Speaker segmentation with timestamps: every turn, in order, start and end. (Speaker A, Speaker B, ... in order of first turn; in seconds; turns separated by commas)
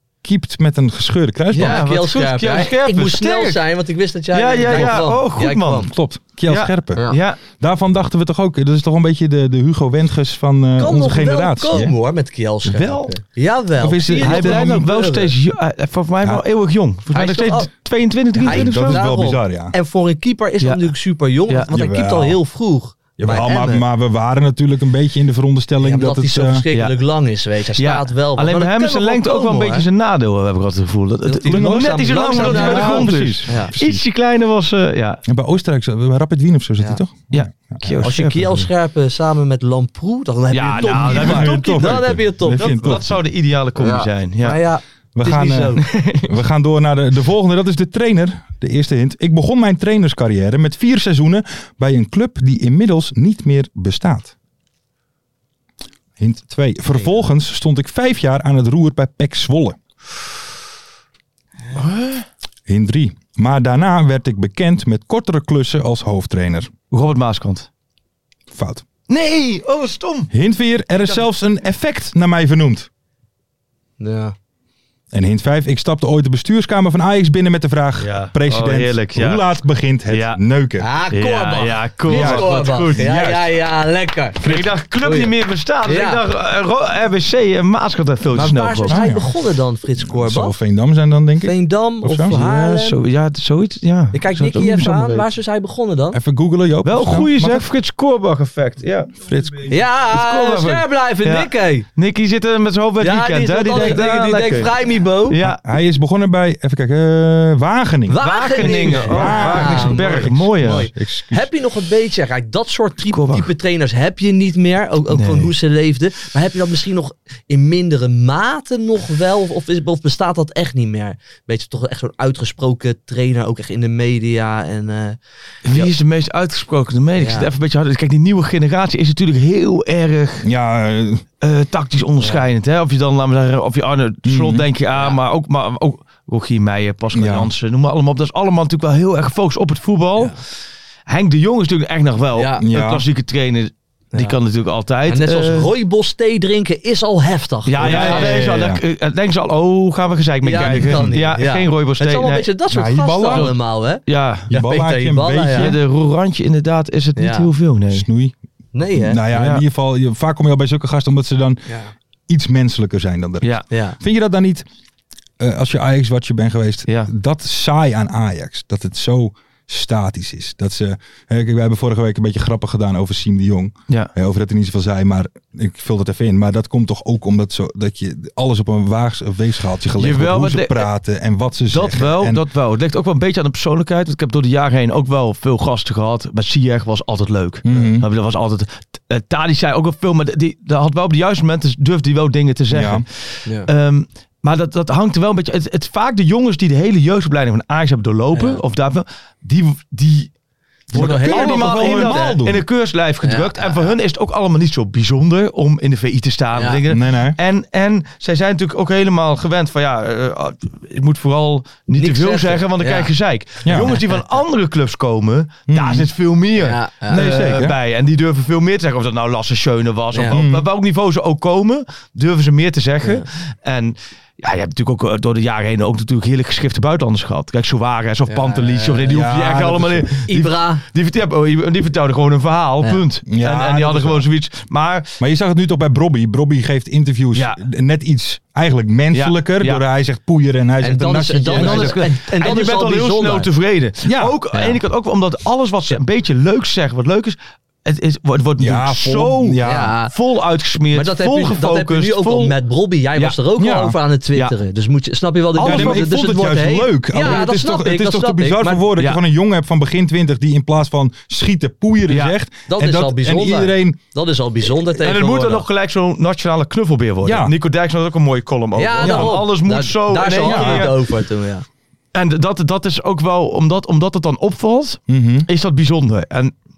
Speaker A: 0.2-1.8, Speaker B: 1.5-5.9, Speaker C: 1.5-3.6, Speaker C: 4.3-5.9, Speaker A: 4.7-5.0, Speaker A: 5.9-11.9, Speaker C: 6.5-7.4, Speaker B: 10.8-15.3, Speaker C: 12.7-13.1, Speaker A: 13.8-14.9, Speaker C: 14.2-19.1, Speaker B: 17.1-17.7, Speaker B: 18.4-23.8, Speaker A: 18.4-19.7, Speaker A: 21.7-22.4, Speaker A: 23.2-26.6, Speaker B: 25.8-29.9, Speaker C: 27.8-35.2, Speaker B: 31.2-33.7, Speaker A: 31.5-34.0, Speaker A: 35.2-38.1, Speaker C: 37.3-38.7, Speaker B: 38.0-43.0, Speaker C: 40.5-44.6, Speaker A: 40.8-43.2, Speaker B: 43.8-45.8, Speaker A: 45.1-54.3, Speaker C: 45.8-46.3, Speaker A: 56.2-59.8, Speaker C: 61.7-62.2, Speaker A: 62.7-66.7, Speaker C: 66.9-67.7, Speaker A: 68.5-68.8, Speaker C: 69.1-70.3, Speaker A: 70.3-72.9, Speaker B: 74.0-74.3, Speaker A: 75.1-80.9, Speaker C: 78.0-79.4, Speaker C: 80.1-80.4, Speaker B: 80.8-85.3, Speaker C: 81.1-83.3, Speaker A: 82.1-83.5, Speaker C: 84.4-89.0, Speaker B: 85.8-86.2, Speaker B: 88.3-90.5, Speaker A: 88.9-89.3, Speaker A: 90.0-92.4, Speaker B: 91.4-93.0, Speaker C: 92.3-95.3, Speaker B: 94.1-96.2, Speaker A: 96.1-97.7, Speaker C: 96.8-99.1, Speaker A: 99.2-99.8, Speaker B: 99.7-101.8, Speaker C: 100.1-104.7, Speaker B: 103.0-105.4, Speaker C: 105.3-105.6, Speaker A: 105.4-111.5, Speaker B: 108.1-125.2, Speaker C: 108.2-110.9, Speaker C: 113.1-113.5, Speaker C: 115.1-115.5, Speaker C: 125.7-130.5, Speaker B: 127.2-127.5, Speaker A: 130.4-131.2, Speaker C: 131.4-140.3, Speaker A: 134.2-134.7, Speaker A: 137.1-137.5, Speaker C: 141.1-145.7, Speaker B: 142.3-142.6, Speaker A: 142.6-143.0, Speaker B: 145.1-148.4, Speaker C: 147.7-152.4, Speaker A: 147.8-148.8, Speaker B: 150.4-155.7, Speaker A: 150.5-151.2, Speaker A: 152.7-153.5, Speaker C: 154.1-154.5, Speaker A: 154.5-155.8, Speaker C: 155.6-158.1, Speaker B: 157.2-157.5, Speaker A: 157.9-158.3, Speaker B: 158.7-159.2, Speaker A: 158.9-161.6, Speaker C: 159.3-159.6, Speaker B: 161.7-161.9, Speaker A: 162.3-164.7, Speaker B: 163.7-164.0, Speaker A: 165.4-182.4, Speaker C: 180.0-180.9, Speaker C: 181.7-200.3, Speaker A: 187.6-188.1, Speaker A: 192.7-193.0, Speaker B: 198.3-198.6, Speaker A: 200.9-202.6, Speaker C: 200.9-235.2, Speaker B: 200.9-202.3, Speaker B: 203.2-203.9, Speaker B: 206.5-206.8, Speaker A: 206.9-207.4, Speaker B: 211.9-213.1, Speaker A: 213.7-214.0, Speaker A: 215.7-216.1, Speaker B: 216.6-217.4, Speaker A: 217.1-217.8, Speaker B: 220.1-220.4, Speaker A: 220.3-220.7, Speaker B: 228.3-229.2, Speaker A: 229.1-230.1, Speaker B: 230.3-230.8, Speaker A: 233.3-234.2, Speaker A: 235.2-242.0, Speaker C: 237.3-237.6, Speaker C: 239.1-239.8, Speaker B: 240.8-243.5, Speaker C: 241.5-252.5, Speaker A: 244.0-244.4, Speaker A: 248.6-249.9, Speaker B: 249.6-250.1, Speaker B: 250.9-258.9, Speaker A: 253.6-254.0, Speaker C: 255.5-256.1, Speaker A: 255.6-264.0, Speaker C: 262.1-262.3, Speaker B: 262.7-265.6, Speaker C: 264.8-270.9, Speaker A: 267.2-267.5, Speaker B: 268.8-271.6, Speaker A: 269.0-269.4, Speaker A: 270.4-270.9, Speaker C: 272.1-276.5, Speaker A: 275.1-275.5